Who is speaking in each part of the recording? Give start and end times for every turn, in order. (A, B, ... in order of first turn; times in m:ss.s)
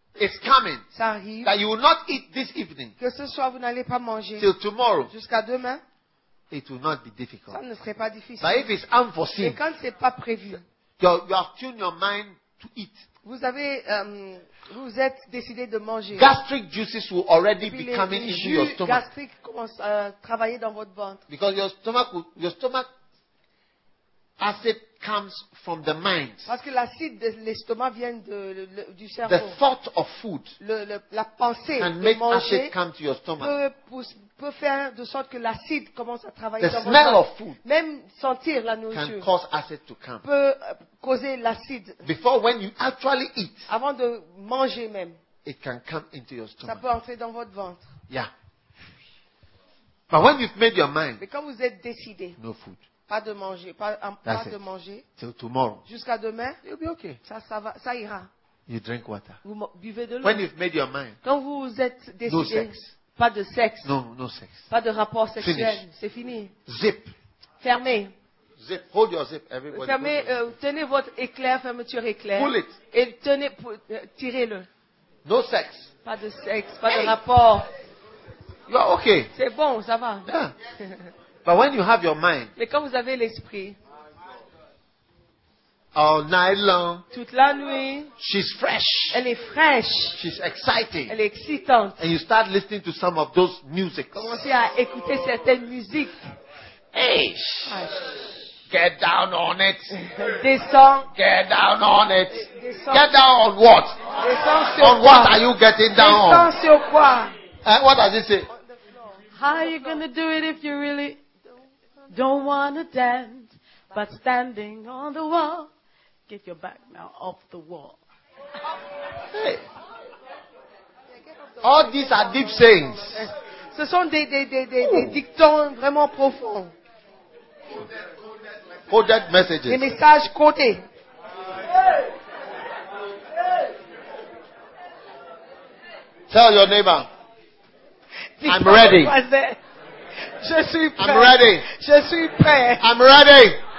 0:00.2-0:00.8 A
0:00.9-0:01.5 B
0:01.4-0:02.9 A
0:03.0-0:04.5 B
0:04.4-0:05.1 A
0:05.1-0:05.8 B
0:06.5-0:07.6 A
0:07.5-0:08.7 B
0:08.4-0:09.6 A
0:09.4-0:10.6 B
0:11.0-0:13.0 A
0:13.2-0:16.3 B
0:16.1-0:19.1 A
0:17.6-0:21.2 B
0:21.3-0:22.9 A
0:24.4-0:26.5 A
0:26.4-0:29.6 B
0:29.2-0:30.5 A
0:30.6-0:32.7 B
0:31.8-0:33.5 A
0:33.4-0:39.3 B
0:36.6-0:37.6 A
0:38.9-0:40.2 A
0:40.2-0:42.0 B
0:42.0-0:43.7 A
0:43.7-0:45.2 B
0:45.4-0:46.8 A
0:46.6-0:47.9 B
0:50.1-0:51.2 A
0:51.2-0:52.4 B
0:52.4-0:52.8 A
0:53.1-0:55.0 B
0:54.2-0:54.6 A
0:55.2-0:55.8 A
0:55.8-0:56.6 B
0:56.6-0:57.2 A
0:57.2-0:58.3 B
0:58.7-0:59.4 A
0:59.4-1:00.4 B
1:00.2-1:01.2 A
1:01.2-1:03.9 B
1:02.3-1:02.9 A
1:03.8-1:04.7 A
1:04.7-1:06.5 B
1:05.4-1:05.8 A
1:06.6-1:07.1 A
1:07.6-1:08.1 B
1:08.6-1:10.4 A
1:09.7-1:14.7 B
1:12.3-1:12.7 A
1:15.2-1:15.9 A
1:16.0-1:17.7 B
1:16.9-1:17.2 A
1:18.7-1:19.3 A
1:19.3-1:20.3 B
1:20.2-1:20.5 A
1:21.4-1:22.5 A
1:22.6-1:23.8 B
1:25.9-1:27.0 A
1:27.1-1:28.1 B
1:28.2-1:29.2 A
1:29.1-1:30.2 B
1:30.2-1:31.1 A
1:31.1-1:32.0 B
1:32.0-1:34.4 A
1:34.1-1:36.3 B
1:36.9-1:37.8 A
1:37.7-1:38.3 B
1:38.7-1:40.0 A
1:40.0-1:41.1 B
1:41.1-1:44.0 A
1:42.3-1:43.1 B
1:44.2-1:45.4 B
1:44.8-1:46.5 A
1:45.9-1:47.3 B
1:47.6-1:48.5 A
1:48.5-1:50.0 B
1:49.4-1:51.2 C
1:52.1-1:55.7 C
1:56.3-1:58.0 C
1:59.3-1:59.6 A
2:01.4-2:02.5 B
2:01.6-2:03.3 A
2:03.0-2:06.7 B
2:04.8-2:05.2 A
2:08.9-2:09.8 A
2:09.7-2:10.8 B
2:16.3-2:17.1 A
2:18.4-2:19.6 B
2:18.4-2:19.1 A
2:20.3-2:22.8 B
2:21.0-2:21.6 A
2:22.8-2:23.6 A